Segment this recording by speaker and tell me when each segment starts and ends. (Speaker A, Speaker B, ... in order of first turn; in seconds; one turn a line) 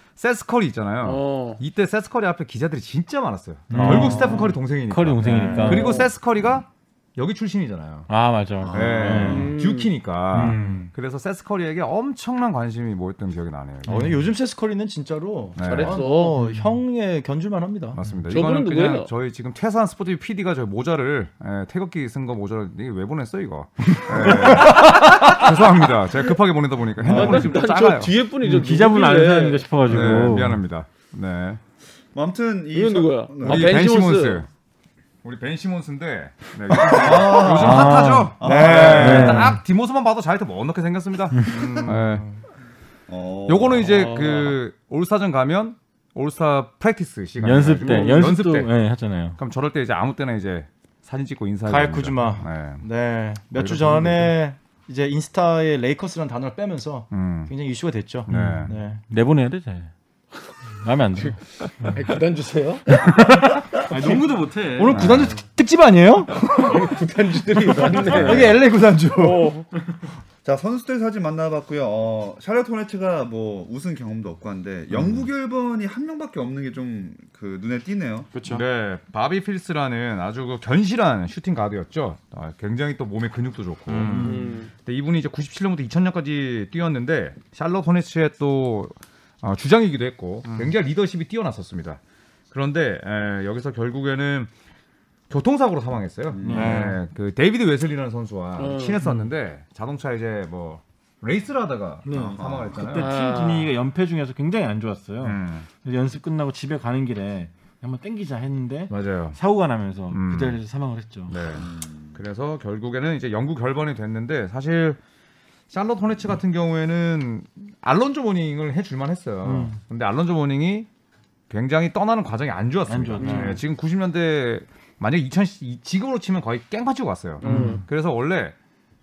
Speaker A: 0.2-8.1
Speaker B: 1.0-1.6
Speaker C: 3.7-6.1
Speaker D: 3.7-4.5
Speaker D: 5.2-6.0
Speaker B: 5.7-6.1
Speaker C: 8.1-9.5
Speaker E: 8.6-9.5
Speaker A: 8.7-14.2
Speaker B: 9.3-9.9
Speaker C: 10.3-10.9
Speaker D: 10.3-10.9
Speaker C: 13.9-14.2
Speaker D: 13.9-18.0
Speaker A: 15.6-16.0
Speaker B: 15.6-16.4
Speaker C: 16.4-16.8
Speaker A: 17.9-28.1
Speaker B: 18.3-19.1
Speaker C: 23.9-25.9
Speaker D: 24.3-25.0
Speaker D: 27.0-27.5
Speaker C: 27.0-27.5
Speaker B: 27.1-29.8
Speaker C: 28.4-30.6
Speaker A: 29.8-31.6
Speaker E: 32.1-33.8
Speaker B: 32.7-34.4
Speaker A: 33.4-34.5
Speaker A: 35.2-42.3
Speaker E: 36.8-39.4
Speaker D: 37.4-39.6
Speaker C: 37.4-38.4
Speaker C: 38.9-39.6
Speaker E: 41.5-41.9
Speaker D: 41.7-42.4
Speaker E: 43.1-44.3
Speaker A: 43.5-48.7
Speaker B: 43.9-44.5
Speaker C: 47.4-49.4
Speaker A: 49.4-52.9
Speaker D: 51.7-59.0
Speaker A: 53.5-54.4
Speaker A: 57.1-57.5
Speaker A: 58.3-58.7
Speaker C: 58.3-59.9
Speaker C: 60.7-61.9
Speaker B: 61.3-63.1
Speaker D: 63.1-69.5
Speaker C: 63.7-65.4
Speaker A: 64.9-65.4
Speaker B: 66.5-68.6
Speaker C: 67.8-68.5
Speaker E: 68.1-68.4
Speaker B: 69.2-69.7
Speaker E: 70.4-78.3
Speaker A: 74.9-75.3
Speaker D: 78.3-78.6
Speaker A: 78.5-92.0
Speaker D: 83.9-84.4
Speaker C: 84.0-84.5
Speaker B: 84.2-84.7
Speaker D: 90.5-90.7
Speaker A: 92.5-94.5
Speaker A: 95.3-103.1
Speaker E: 96.3-96.8
Speaker C: 96.4-96.9
Speaker D: 96.5-97.0
Speaker B: 98.6-99.0
Speaker C: 99.0-99.3
Speaker C: 102.1-111.4
Speaker E: 102.1-102.9
Speaker B: 102.9-103.7
Speaker A: 105.2-105.7
Speaker A: 108.9-109.4
Speaker A: 110.1-110.6
Speaker A: 111.3-115.0
Speaker E: 111.5-112.2
Speaker A: 115.7-120.9
Speaker C: 119.4-119.8
Speaker A: 121.5-128.6
Speaker C: 122.9-123.6
Speaker D: 123.2-123.6
Speaker B: 127.4-127.8
Speaker C: 127.4-127.8